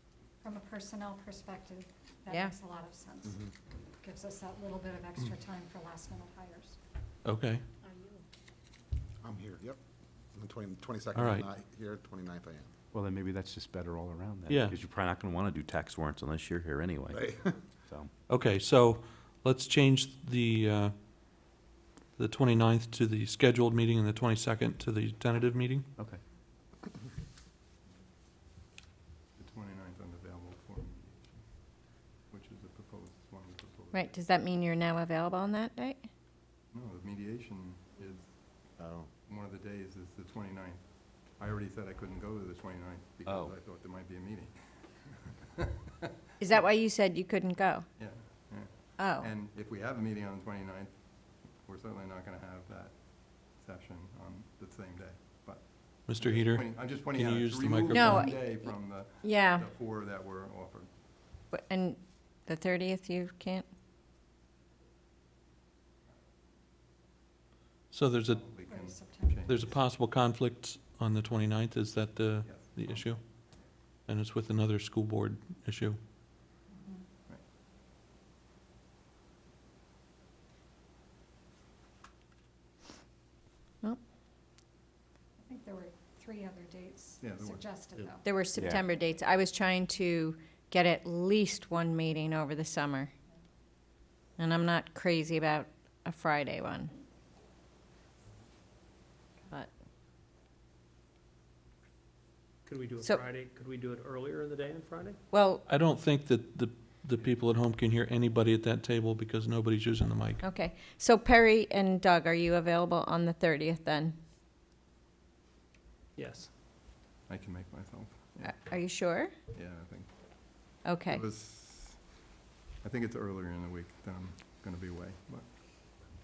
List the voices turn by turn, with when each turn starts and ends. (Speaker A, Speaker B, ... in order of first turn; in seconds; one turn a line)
Speaker A: 0.4-3.4
Speaker B: 2.3-2.5
Speaker A: 4.0-6.8
Speaker C: 7.2-7.6
Speaker D: 9.2-9.8
Speaker D: 10.3-12.7
Speaker C: 11.2-11.5
Speaker E: 12.9-18.1
Speaker C: 14.5-14.8
Speaker D: 17.1-17.6
Speaker C: 18.3-21.5
Speaker C: 22.2-25.9
Speaker F: 29.4-34.1
Speaker B: 33.9-36.0
Speaker F: 36.7-38.7
Speaker D: 38.8-39.1
Speaker F: 39.3-45.8
Speaker E: 43.2-43.5
Speaker B: 46.4-47.9
Speaker F: 46.4-46.7
Speaker F: 48.0-60.9
Speaker B: 49.0-49.3
Speaker C: 56.0-58.4
Speaker B: 57.9-59.7
Speaker B: 61.5-63.7
Speaker C: 67.9-68.5
Speaker F: 68.2-69.8
Speaker A: 68.6-69.5
Speaker C: 69.4-76.0
Speaker F: 72.4-73.7
Speaker A: 76.7-77.1
Speaker A: 85.4-88.3
Speaker F: 87.2-87.8
Speaker B: 88.2-93.1
Speaker E: 88.6-88.8
Speaker B: 94.4-96.9
Speaker G: 102.7-105.1
Speaker B: 105.3-105.7
Speaker C: 105.7-110.4
Speaker B: 110.4-114.2
Speaker F: 117.3-119.0
Speaker B: 118.4-119.3
Speaker F: 119.5-122.3
Speaker B: 120.8-121.2
Speaker F: 122.8-125.6